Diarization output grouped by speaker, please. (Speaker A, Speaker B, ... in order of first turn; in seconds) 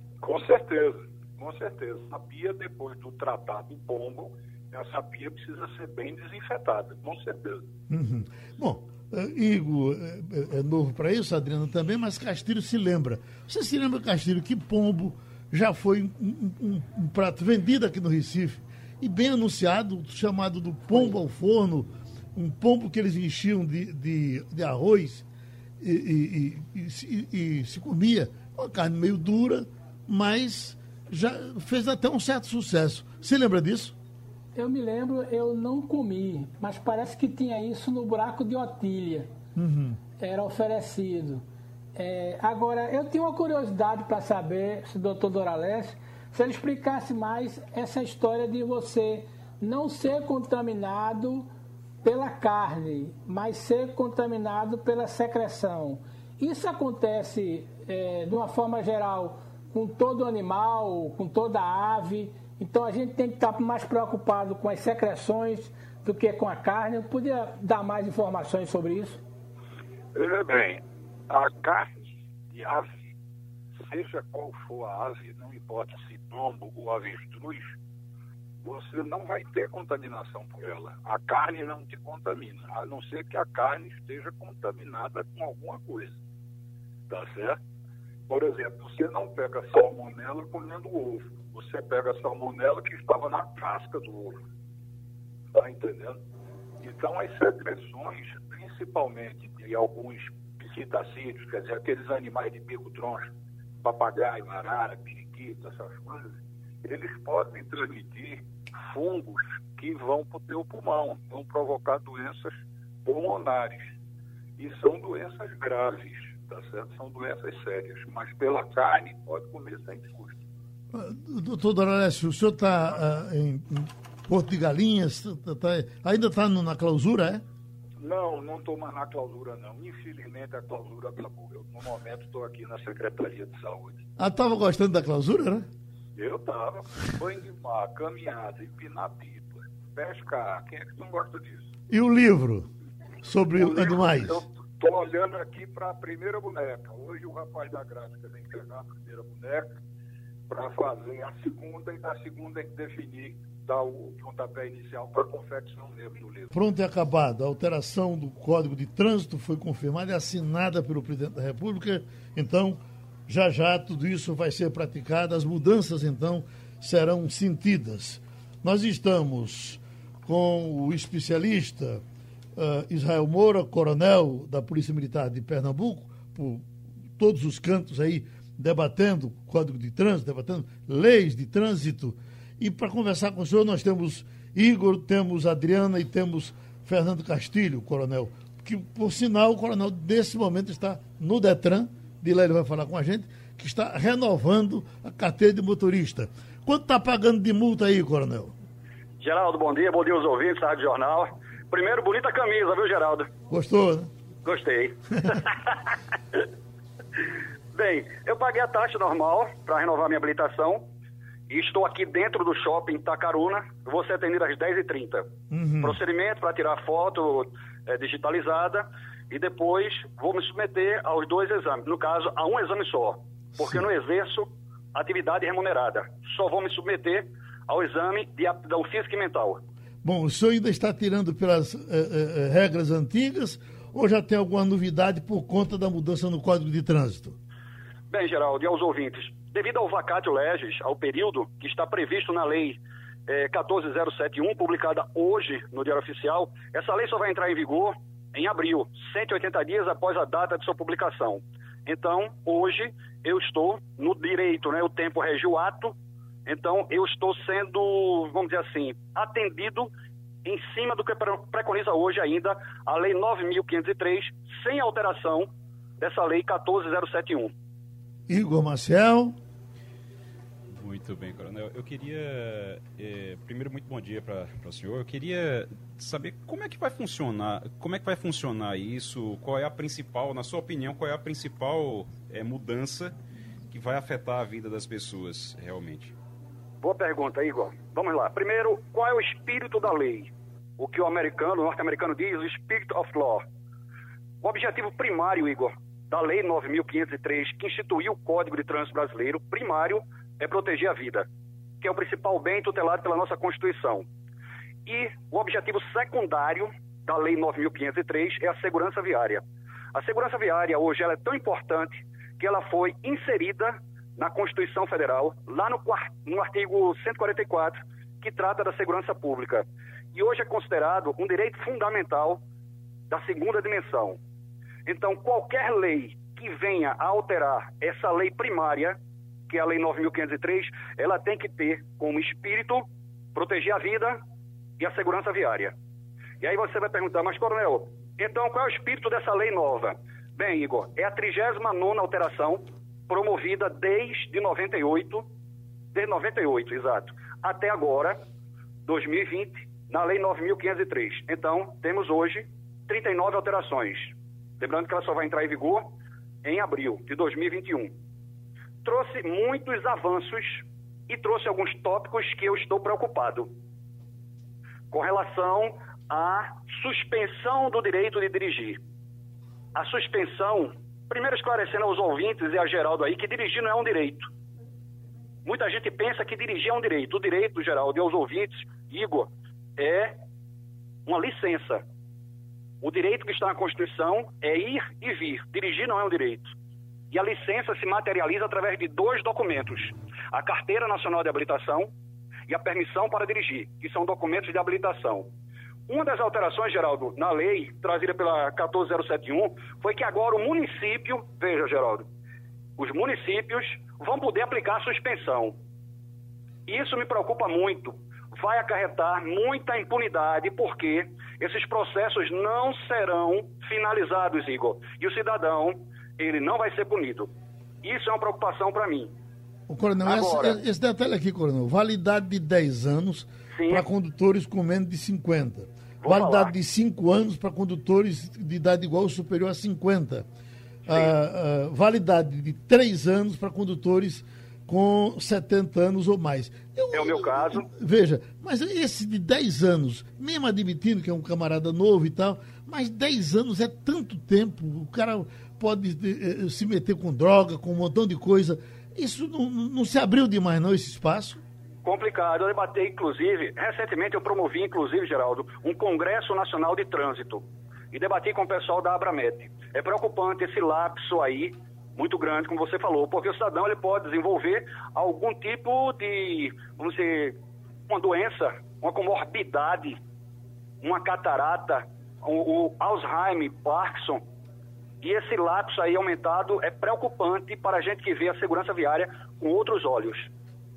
Speaker A: 0.2-7.7, 70.1-71.9, 72.5-73.1, 73.8-77.7, 78.6-86.2, 87.1-87.6, 88.3-94.4, 95.5-96.2, 96.8-103.3, 103.8-113.9, 114.6-120.4, 128.0-134.0, 136.2-141.7, 143.6-149.8, 150.5-156.5
Speaker B: 7.9-25.2, 25.8-34.0, 39.6-40.0, 120.9-127.4, 134.2-135.7, 141.9-142.7, 143.2-144.4, 156.5-172.0, 172.6-176.7, 177.2-198.5, 203.5-204.1, 215.5-216.0, 223.6-223.8, 230.0-237.4, 268.3-269.4, 419.7-430.3, 430.9-451.4
Speaker C: 34.5-39.3, 40.2-41.4, 42.0-51.5, 52.0-69.2
Speaker D: 199.2-203.3, 204.4-205.8, 207.7-210.8, 211.5-215.3, 215.8-229.6, 238.1-255.9, 256.5-259.9, 260.4-267.5, 286.8-293.4, 294.4-301.3, 301.8-304.1, 304.9-309.4, 309.9-322.4, 323.1-324.2, 324.9-329.0, 329.5-334.2, 334.8-335.7, 336.4-345.2, 345.9-348.2, 348.9-355.9, 356.4-357.9, 358.8-363.5, 364.9-368.8, 369.8-374.3, 375.4-380.1, 381.1-381.8, 382.8-386.5, 387.1-391.9, 392.5-395.3, 395.9-402.1, 402.8-405.6, 406.7-417.3, 417.8-419.1, 420.0-420.6, 423.5-423.8, 426.0-426.5, 436.9-437.7, 451.8-467.4, 467.9-470.0, 470.8-474.2, 475.0-480.3
Speaker E: 270.7-283.1, 283.7-286.1